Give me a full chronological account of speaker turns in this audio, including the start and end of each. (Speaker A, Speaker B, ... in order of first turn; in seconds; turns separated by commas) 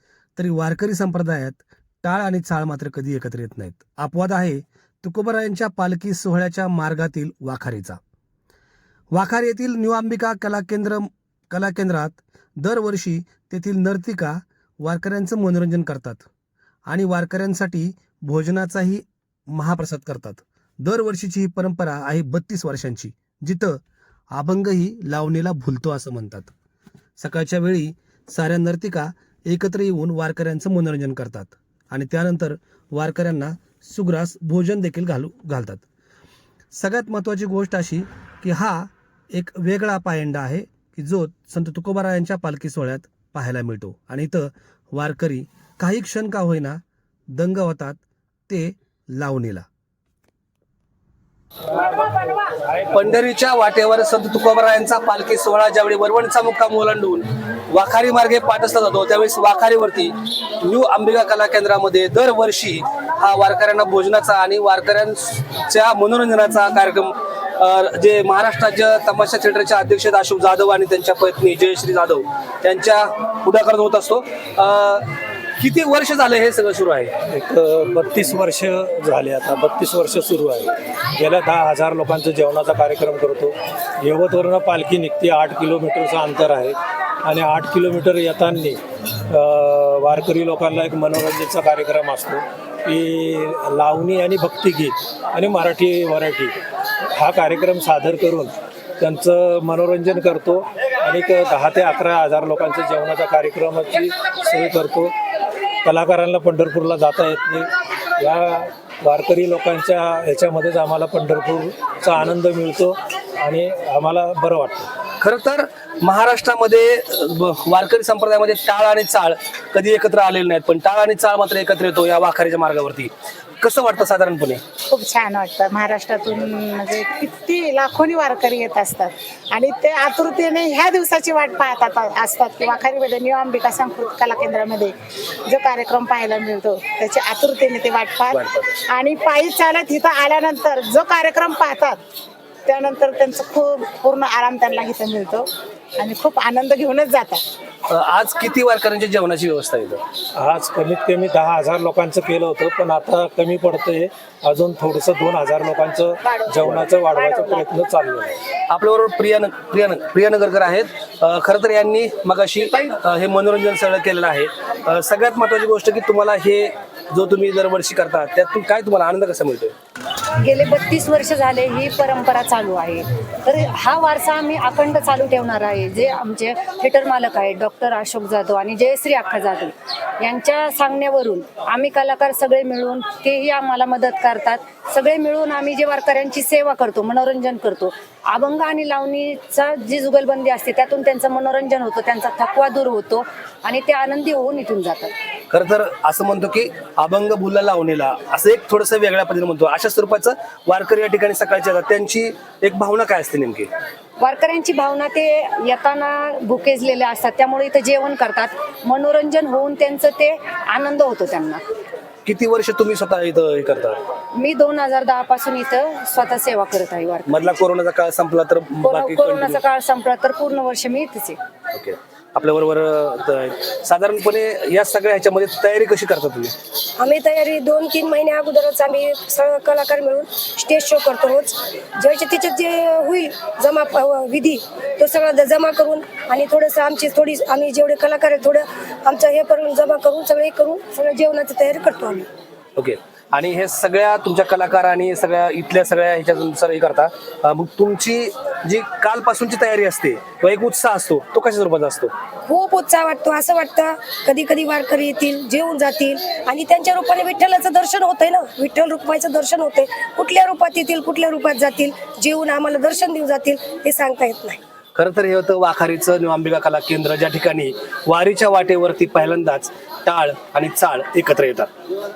Speaker A: 0.4-8.0, Speaker A: 9.1-16.3, Speaker A: 16.9-23.8, Speaker A: 24.3-26.5, Speaker A: 27.2-35.8, Speaker A: 36.7-46.8, Speaker A: 47.3-49.7, Speaker A: 52.9-75.0, Speaker A: 75.6-77.1, Speaker B: 77.3-96.5, Speaker B: 97.1-105.1, Speaker B: 105.8-114.9, Speaker A: 115.2-124.6, Speaker C: 124.9-134.9, Speaker C: 135.5-142.0, Speaker A: 138.3-138.8, Speaker C: 142.7-145.5, Speaker C: 146.0-147.4, Speaker A: 147.9-150.0, Speaker B: 150.4-158.4, Speaker C: 156.2-157.7, Speaker A: 158.7-169.7, Speaker D: 170.4-195.1, Speaker A: 195.5-203.7, Speaker D: 204.2-211.6, Speaker A: 212.3-214.0, Speaker D: 214.4-217.6, Speaker A: 217.3-219.6, Speaker D: 218.8-221.4, Speaker A: 221.7-226.5, Speaker E: 227.0-242.3, Speaker A: 242.8-252.1, Speaker E: 252.5-264.6, Speaker A: 265.0-271.7